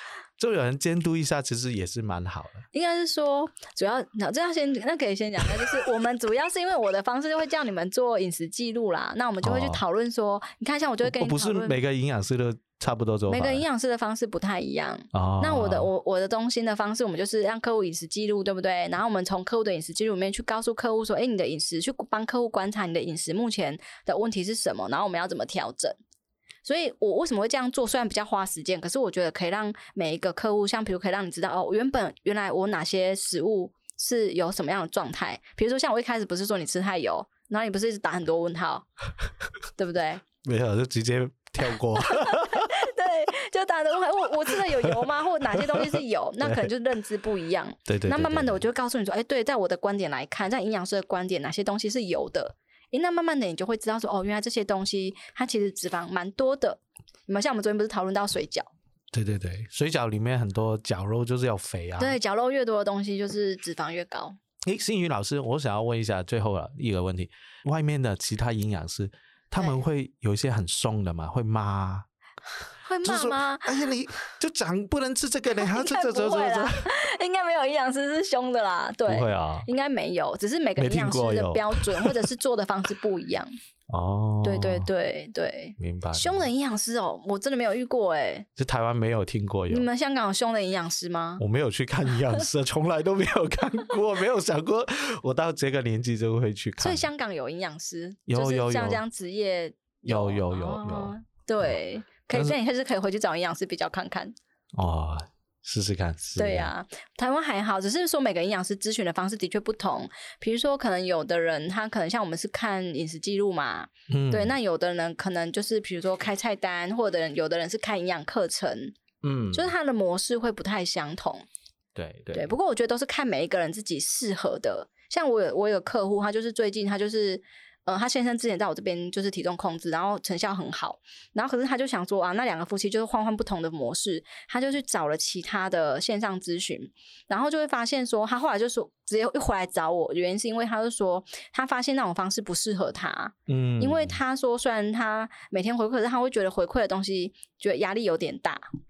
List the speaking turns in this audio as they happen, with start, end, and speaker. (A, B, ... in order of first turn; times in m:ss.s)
0:00.4-0:02.6 A
0:02.7-0:11.8 B
0:09.4-0:09.8 A
0:11.0-0:13.6 A
0:13.3-0:26.0 B
0:15.1-0:15.9 A
0:26.6-0:38.9 B
0:39.8-0:40.2 B
0:40.4-0:42.7 A
0:42.0-0:58.7 B
0:45.5-0:46.7 A
0:47.9-0:48.6 A
0:59.1-1:02.2 A
1:02.0-1:04.4 B
1:04.6-1:12.1 A
1:12.8-1:13.9 B
1:13.0-1:16.8 A
1:15.6-1:23.5 B
1:19.1-1:19.7 A
1:20.8-1:22.3 A
1:23.9-1:24.9 A
1:24.4-1:28.5 B
1:25.8-1:26.5 A
1:28.6-1:29.9 A
1:29.7-1:31.4 B
1:31.4-1:37.1 A
1:36.8-1:44.3 B
1:38.3-1:39.0 A
1:40.0-1:41.1 A
1:44.7-1:46.7 A
1:46.4-1:59.0 B
1:54.1-1:54.6 A
1:59.2-1:59.7 A
1:59.5-2:01.4 B
2:01.9-2:02.5 A
2:02.3-2:28.6 B
2:23.5-2:24.2 A